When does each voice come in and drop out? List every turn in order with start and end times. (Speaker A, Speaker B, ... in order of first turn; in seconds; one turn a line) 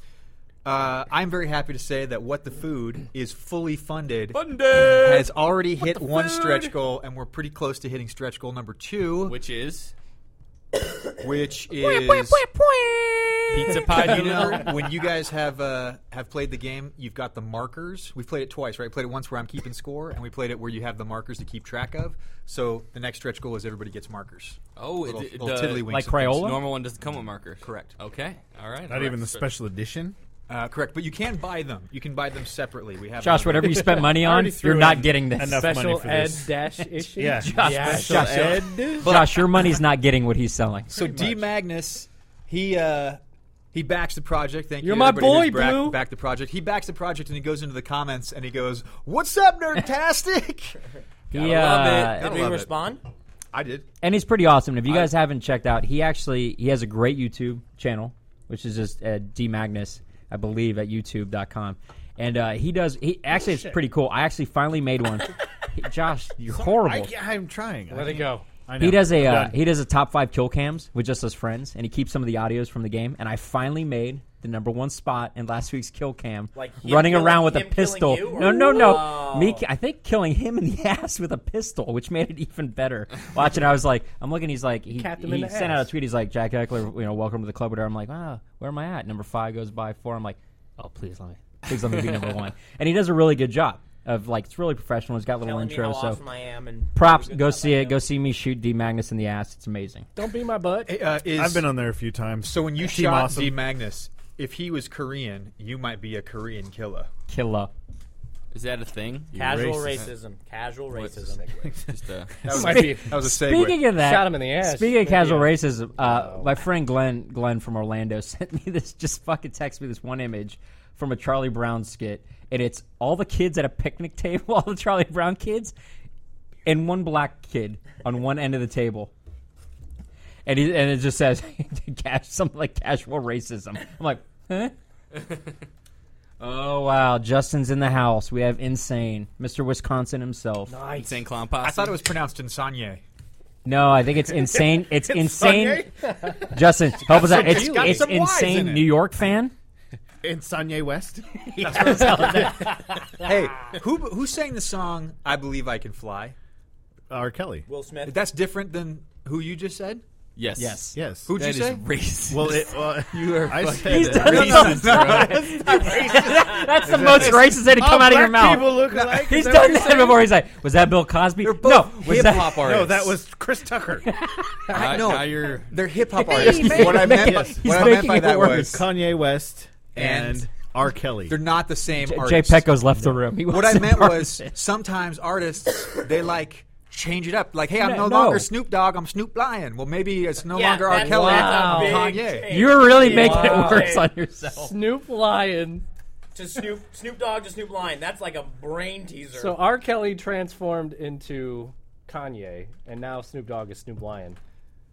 Speaker A: 0.6-9.4
Speaker B: 4.3-6.7
Speaker B: 9.2-9.9
Speaker A: 11.2-12.4
Speaker C: 11.7-13.8
Speaker B: 13.5-14.7
Speaker A: 13.9-26.5
Speaker B: 24.8-29.5
Speaker C: 25.9-26.6
Speaker A: 27.6-27.9
Speaker D: 28.9-30.1
Speaker A: 30.5-34.3
Speaker C: 33.2-35.8
Speaker E: 34.0-34.4
Speaker D: 34.3-36.5
Speaker E: 35.5-38.6
Speaker C: 36.8-40.9
Speaker D: 37.1-39.2
Speaker A: 39.0-39.8
Speaker A: 40.9-43.2
Speaker A: 43.7-50.8
Speaker E: 44.8-46.0
Speaker C: 51.3-52.3
Speaker B: 51.3-52.7
Speaker F: 52.2-53.0
Speaker A: 53.5-53.9
Speaker C: 54.0-67.1
Speaker D: 66.5-69.6
Speaker E: 67.9-68.4
Speaker C: 68.8-96.2
Speaker F: 76.5-79.6
Speaker E: 84.9-85.9
Speaker B: 91.9-92.4
Speaker F: 95.4-98.0
Speaker C: 96.9-100.1
Speaker E: 100.2-100.9
Speaker A: 100.9-101.7
Speaker D: 101.3-103.6
Speaker A: 102.4-107.1
Speaker C: 107.3-107.7
Speaker B: 108.5-110.1
Speaker F: 109.3-111.5
Speaker D: 109.4-110.0
Speaker B: 110.9-112.4
Speaker D: 111.7-112.0
Speaker A: 112.4-113.9
Speaker E: 112.5-113.3
Speaker C: 112.6-125.7
Speaker E: 113.9-116.5
Speaker C: 126.7-129.1
Speaker C: 130.4-134.7
Speaker C: 136.4-140.7
Speaker E: 140.7-141.2
Speaker B: 141.0-142.0
Speaker A: 141.6-143.0
Speaker C: 143.6-149.5
Speaker D: 144.9-146.2
Speaker A: 147.1-148.9
Speaker D: 147.4-147.8
Speaker D: 150.2-151.3
Speaker C: 151.4-152.8
Speaker A: 153.2-156.4
Speaker D: 157.1-157.7
Speaker F: 157.7-158.2
Speaker A: 158.1-160.0
Speaker B: 160.4-165.2
Speaker C: 160.6-161.0
Speaker D: 160.9-161.3
Speaker A: 161.2-161.8
Speaker D: 162.3-170.2
Speaker C: 163.9-172.7
Speaker A: 164.1-165.8
Speaker A: 166.9-167.3
Speaker A: 168.9-169.4
Speaker A: 171.4-173.2
Speaker D: 172.6-174.1
Speaker C: 174.1-174.9
Speaker B: 174.7-176.2
Speaker A: 174.7-178.9
Speaker C: 176.1-178.8
Speaker D: 176.4-177.8
Speaker D: 178.3-181.4
Speaker A: 179.9-180.5
Speaker A: 181.3-182.7
Speaker C: 181.9-184.6
Speaker A: 183.5-192.8
Speaker C: 187.8-188.5
Speaker F: 190.4-194.1
Speaker E: 190.9-192.2
Speaker C: 192.5-194.8
Speaker E: 192.9-195.8
Speaker F: 196.3-199.6
Speaker E: 199.3-204.4